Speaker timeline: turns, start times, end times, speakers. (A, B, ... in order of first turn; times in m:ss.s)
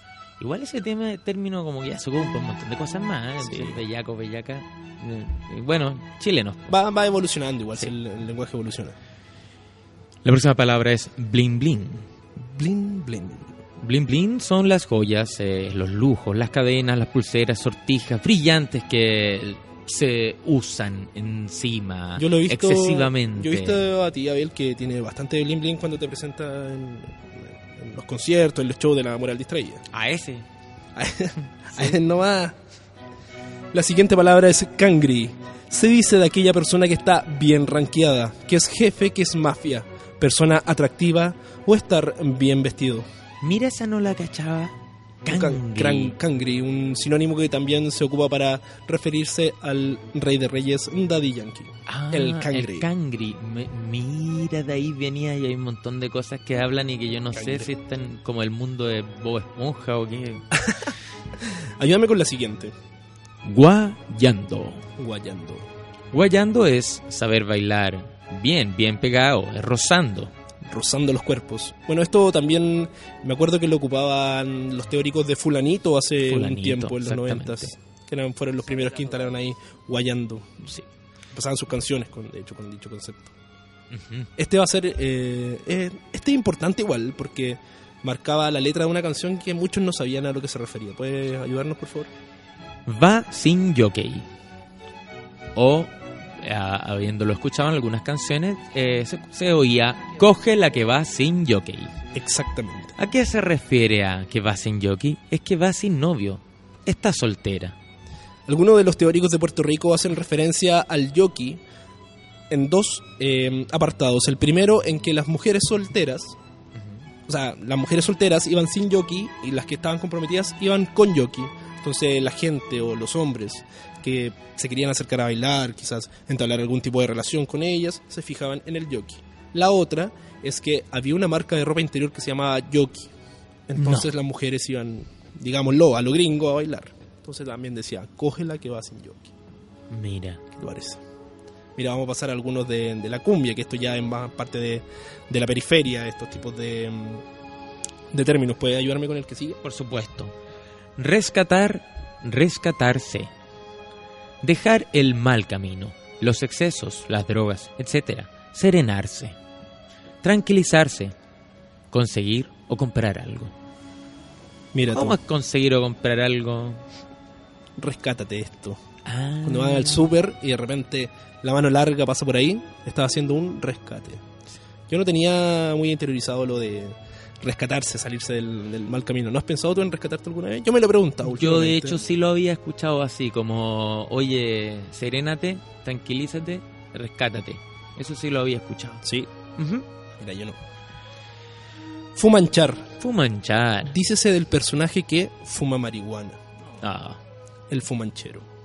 0:00.4-0:06.8 A
0:03.4-0:03.8 B
0:06.7-0:08.9 B
0:10.2-0:12.0 A
0:12.5-0:13.5 B
0:13.8-0:23.8 A
0:22.2-0:29.8 B
0:29.9-0:30.4 A
0:31.0-0:32.5 B
0:33.7-0:43.0 B
0:43.4-0:44.7 A
0:45.2-0:46.1 A
0:45.2-0:52.8 B
0:51.9-1:00.4 A
0:57.3-0:57.7 B
1:00.6-1:00.9 B
1:01.8-1:02.7 B
1:03.4-1:04.8 A
1:05.0-1:05.7 B
1:06.1-1:10.3 A
1:10.7-1:20.6 B
1:16.2-1:17.7 A
1:21.3-1:23.3 B
1:23.9-1:24.3 A
1:24.4-1:32.1 B
1:32.8-1:34.2 A
1:35.5-1:41.9 A
1:42.1-1:42.9 B
1:43.0-1:47.8 A
1:48.5-1:51.6 B
1:52.5-1:56.4 B
1:57.3-2:13.1 B
2:13.7-2:19.3 B
2:13.8-2:14.1 A
2:19.9-2:20.4 A
2:20.6-2:21.0 B
2:21.8-2:27.2 B
2:28.1-2:29.6 B
2:29.6-2:30.3 A
2:31.0-2:33.3 A
2:34.4-2:39.4 A
2:40.2-2:41.1 A
2:41.9-2:43.5 A
2:44.7-2:45.2 B
2:44.9-2:46.8 A
2:47.8-2:48.8 B
2:49.0-2:50.1 A
2:49.4-2:54.2 B
2:54.9-3:02.0 B
3:01.2-3:09.0 A
3:09.0-3:09.3 B
3:09.6-3:09.8 A
3:10.2-3:10.6 B
3:12.2-3:12.8 B
3:13.0-3:13.9 A
3:13.9-3:16.4 B
3:16.8-3:17.2 A
3:17.7-3:18.4 B